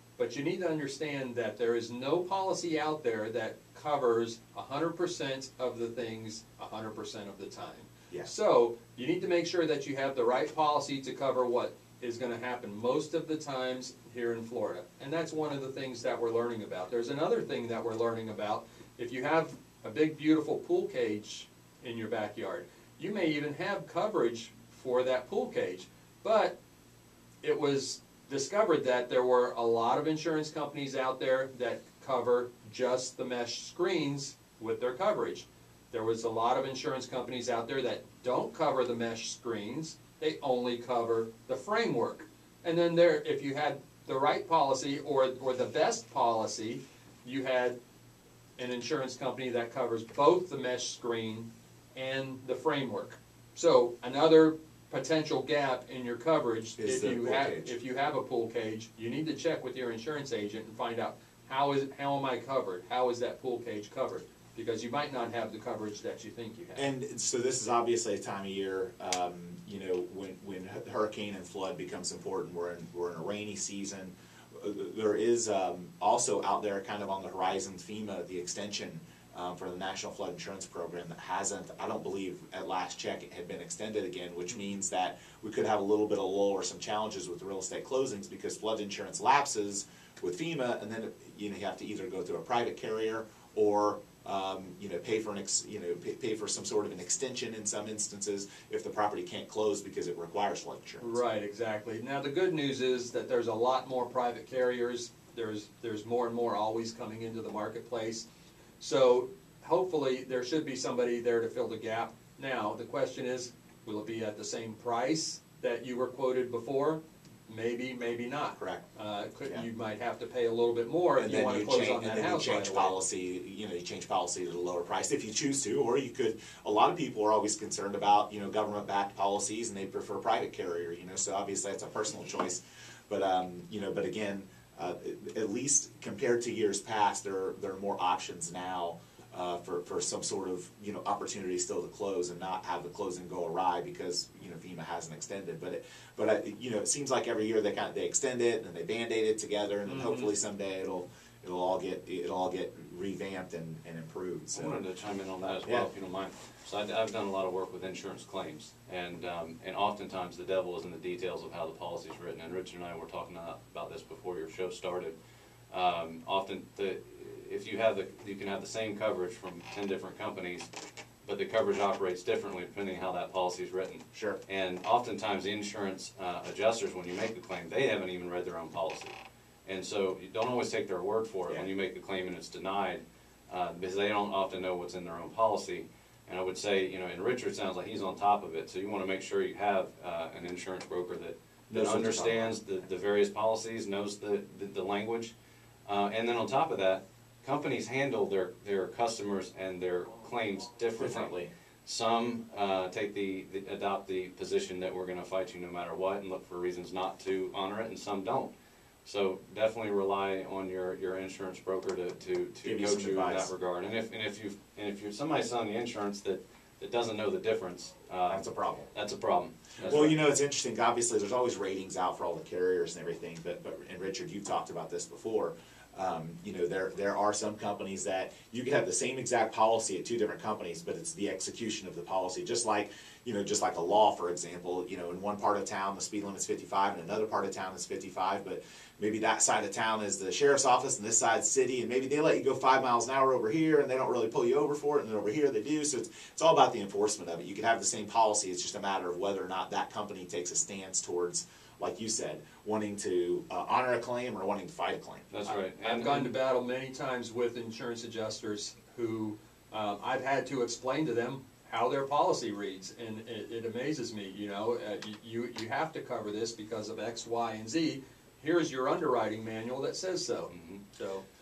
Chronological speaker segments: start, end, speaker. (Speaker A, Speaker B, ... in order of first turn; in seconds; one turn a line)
Speaker A: 0.2-26.5
Speaker A: 27.4-47.8
Speaker A: 48.6-66.9
Speaker B: 56.8-57.7
Speaker B: 66.8-101.2
Speaker A: 101.0-108.3
Speaker A: 108.8-123.0
Speaker B: 118.6-118.8
Speaker B: 121.2-154.8
Speaker A: 149.8-150.3
Speaker C: 154.5-165.2
Speaker C: 165.7-170.7
Speaker C: 171.2-179.1
Speaker C: 179.7-195.3
Speaker B: 191.7-192.6
Speaker C: 195.8-201.3
Speaker B: 201.0-201.5
Speaker C: 201.8-208.5
Speaker C: 209.0-220.2
Speaker B: 212.6-213.5
Speaker B: 218.3-218.9
Speaker B: 219.8-255.3
Speaker C: 255.3-256.3
Speaker A: 255.4-271.2
Speaker C: 270.5-270.8